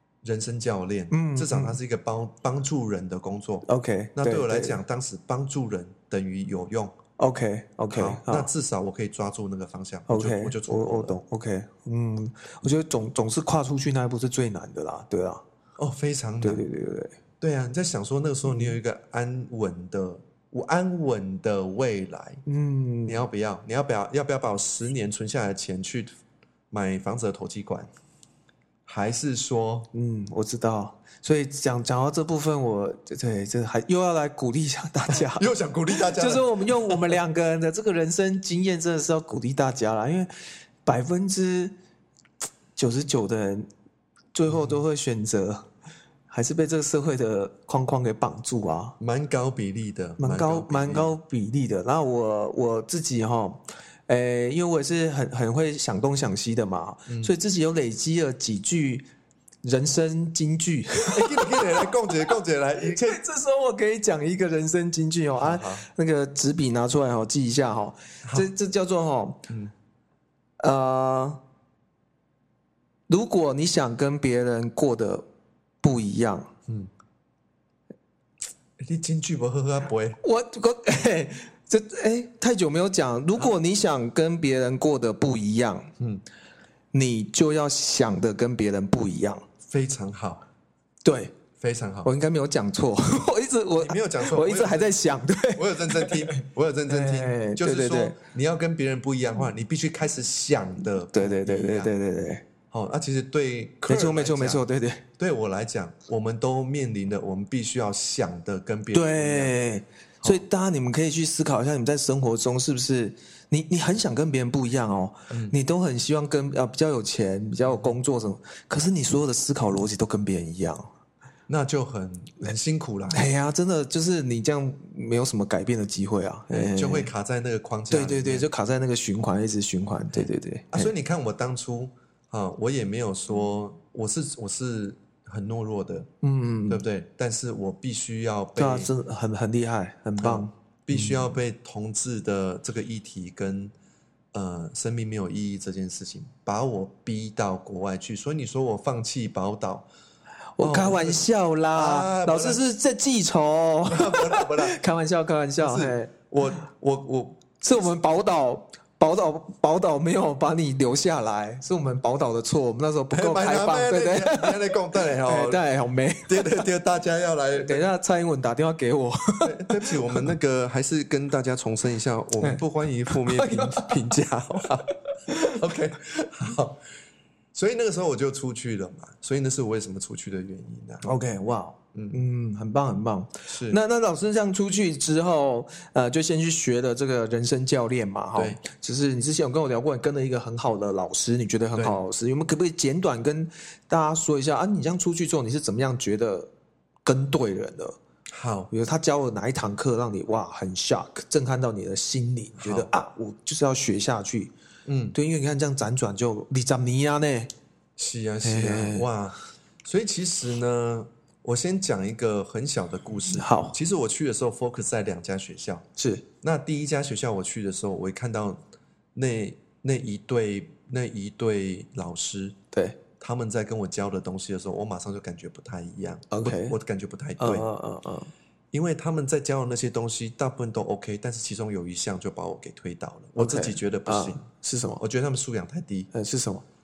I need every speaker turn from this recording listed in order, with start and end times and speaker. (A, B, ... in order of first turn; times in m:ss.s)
0:00.2-0:07.0 A
0:01.1-0:01.8 B
0:03.6-0:04.8 B
0:07.2-0:08.5 B
0:07.9-0:11.2 A
0:10.1-0:15.4 B
0:15.8-0:16.6 A
0:16.4-0:17.2 B
0:17.4-0:22.4 A
0:18.5-0:18.7 B
0:22.4-0:23.2 B
0:23.1-0:26.1 A
0:26.7-0:27.9 A
0:28.8-0:29.9 A
0:29.9-0:40.3 B
0:35.1-0:37.2 A
0:40.8-0:41.7 B
0:42.8-0:43.7 B
0:44.3-0:45.6 B
0:44.5-0:44.8 A
0:46.3-0:49.0 B
0:49.0-0:51.1 A
0:50.2-0:59.0 B
0:57.1-0:57.3 A
0:59.6-1:02.1 B
1:01.1-1:03.2 A
1:02.8-1:09.4 B
1:05.3-1:05.8 A
1:08.2-1:08.5 A
1:10.6-1:11.4 B
1:13.1-1:15.2 B
1:15.8-1:16.5 B
1:18.8-1:20.2 A
1:20.2-1:25.9 B
1:26.9-1:29.4 B
1:29.6-1:30.4 A
1:31.0-1:31.3 B
1:31.6-1:32.1 A
1:32.0-1:38.2 B
1:33.8-1:35.0 A
1:35.5-1:41.9 A
1:41.1-1:42.4 B
1:42.7-1:44.6 A
1:43.9-1:45.0 B
1:45.2-1:49.5 A
1:48.9-2:00.9 B
1:55.3-1:55.5 A
1:57.6-1:57.9 A
2:01.5-2:03.3 A
2:03.1-2:07.1 B
2:06.5-2:08.5 A
2:07.9-2:10.9 B
2:10.1-2:16.1 A
2:16.2-2:16.8 B
2:16.7-2:18.9 A
2:18.6-2:21.3 B
2:20.2-2:23.7 A
2:24.3-2:29.9 A
2:30.6-2:36.1 B
2:30.6-2:31.2 A
2:31.7-2:32.6 A
2:33.9-2:34.8 A
2:35.6-2:37.4 A
2:37.6-2:46.6 B
2:43.1-2:45.6 A
2:46.3-2:47.8 A
2:47.6-2:50.3 B
2:49.4-2:56.8 A
2:52.4-2:54.1 B
2:55.2-2:55.6 B
2:57.5-3:01.1 A
3:01.0-3:16.5 B
3:01.9-3:02.2 A
3:03.5-3:03.8 A
3:08.3-3:08.6 A
3:17.0-3:18.0 B
3:18.3-3:18.7 A
3:18.7-3:24.5 B
3:22.6-3:22.9 A
3:24.8-3:25.2 A
3:25.1-3:27.5 B
3:28.0-3:35.8 A
3:28.4-3:29.1 B
3:33.3-3:33.8 B
3:36.0-3:36.2 B
3:36.4-3:38.6 A
3:39.1-3:42.6 A
3:42.7-3:43.0 B
3:43.2-3:47.7 A
3:46.3-3:46.8 B
3:47.4-3:48.3 B
3:48.7-3:54.4 A
3:53.4-3:55.0 B
3:55.0-3:56.1 A
3:56.1-3:56.6 B